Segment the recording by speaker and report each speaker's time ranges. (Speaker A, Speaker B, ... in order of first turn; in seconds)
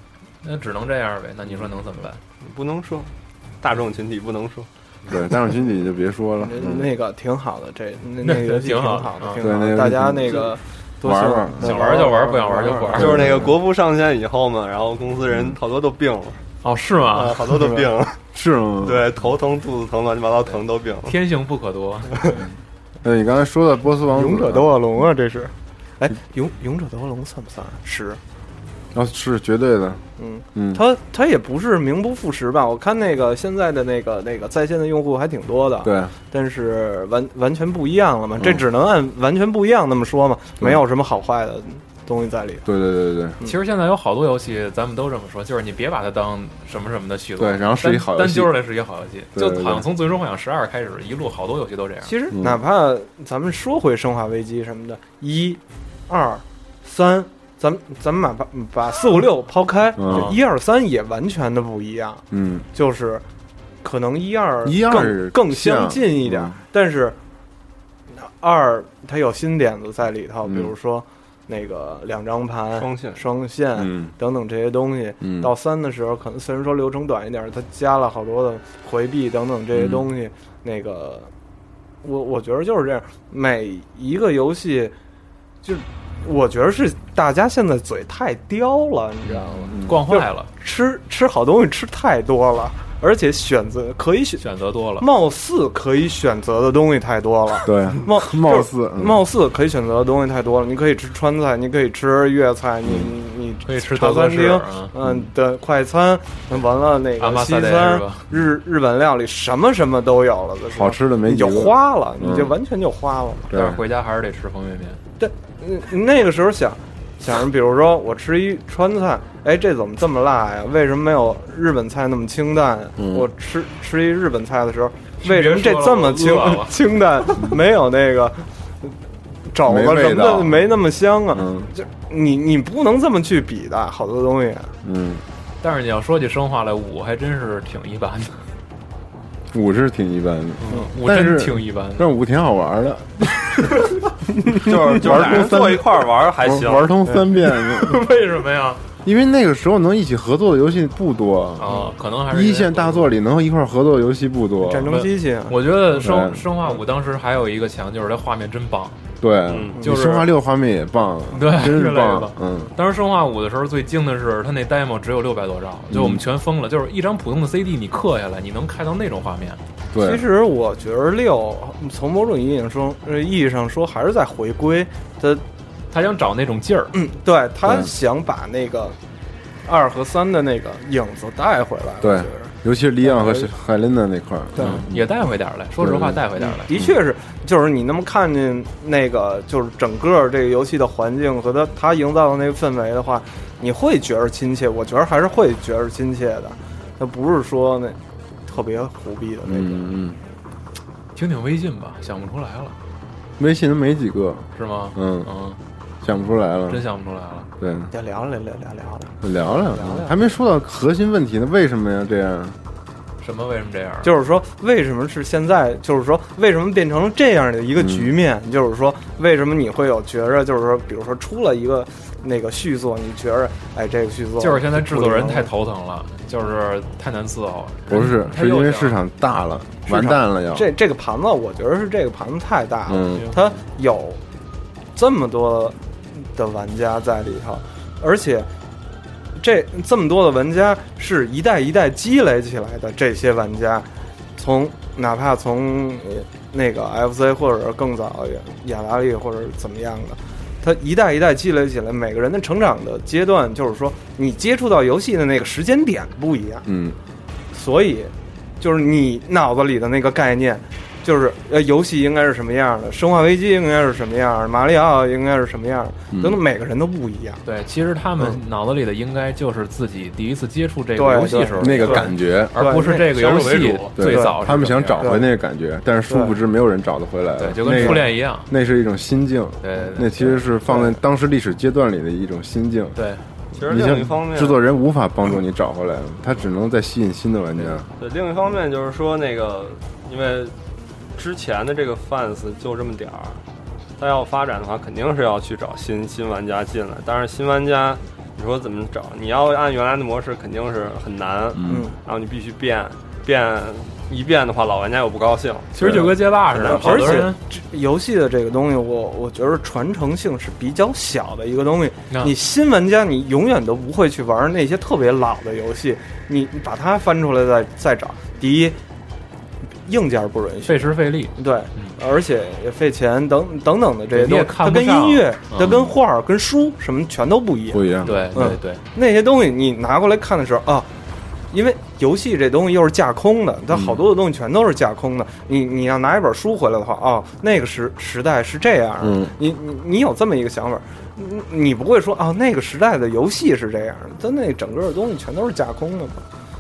Speaker A: 0.4-2.2, 8.2-9.4, 11.6-13.2, 16.6-17.5, 20.5-22.4, 43.4-52.1, 60.1-60.4, 89.8-90.5, 94.4-95.1, 103.7-104.9, 107.2-108.3, 113.5-115.0, 125.2-126.8, 135.6-138.4, 140.6-142.1, 147.8-148.8, 151.6-153.1, 154.9-159.0, 159.8-160.3, 161.3-169.6, 175.9-176.9, 184.6-186.7, 201.2-202.8, 204.6-205.6, 206.7-207.5, 213.2-214.1, 224.4-229.0, 233.1-233.4, 267.4-275.1, 277.4-278.5, 279.6-280.3, 282.9-283.2, 305.7-307.4, 320.7-322.0, 324.1-325.7, 328.0-328.8
Speaker B: 2.4-4.7, 12.9-16.4, 17.1-18.2, 18.8-21.2, 72.7-73.2, 144.5-146.9, 159.5-159.8, 273.1-273.9, 283.5-284.6, 288.0-290.5, 291.2-293.4, 294.0-307.3
Speaker C: 5.1-6.9, 9.4-11.8, 12.9-13.6, 18.3-19.1, 23.0-24.7, 28.9-30.8, 35.8-36.1, 38.4-38.6, 42.6-43.4, 47.4-48.6, 49.3-49.9, 52.3-52.6, 60.0-60.4, 62.3-62.7, 64.6-66.6, 70.5-70.7, 73.8-74.1, 75.2-75.5, 79.7-80.1, 89.6-90.0, 97.7-99.2, 102.8-103.2, 105.0-105.3, 110.7-112.5, 113.5-113.8, 123.0-123.3, 129.6-130.7, 131.3-131.7, 134.8-135.2, 139.5-143.8, 144.5-148.0, 149.0-151.7, 152.3-155.0, 156.0-156.5, 159.2-162.7, 165.9-166.2, 169.9-170.3, 177.6-177.9, 182.0-185.1, 185.8-187.0, 199.4-200.2, 203.4-205.3, 206.0-206.8, 207.6-207.9, 209.2-212.6, 217.8-218.2, 227.9-230.7, 232.9-233.3, 256.6-257.0, 266.1-266.4, 271.6-272.6, 273.9-283.0, 283.7-287.9, 301.5-301.9, 305.8-306.1, 325.6-325.9, 327.7-328.3, 333.7-334.0, 339.0-339.3
Speaker D: 6.4-13.1, 24.1-28.2, 30.2-42.7, 52.0-63.2, 63.8-67.2, 68.1-81.3, 82.0-85.0, 85.6-94.5, 95.0-113.5, 115.2-129.0, 129.5-134.7, 154.6-155.6, 170.0-175.4, 176.9-179.0, 179.7-183.5, 184.6-184.8, 186.4-199.9, 207.9-210.2, 214.0-225.5, 229.9-234.2, 234.9-238.5, 239.4-256.7, 257.5-267.4, 271.0-273.4, 274.1-274.4, 275.0-275.3, 276.1-276.3, 277.7-278.0, 280.7-280.9, 301.7-301.9, 306.6-318.8, 319.9-330.9, 331.5-346.2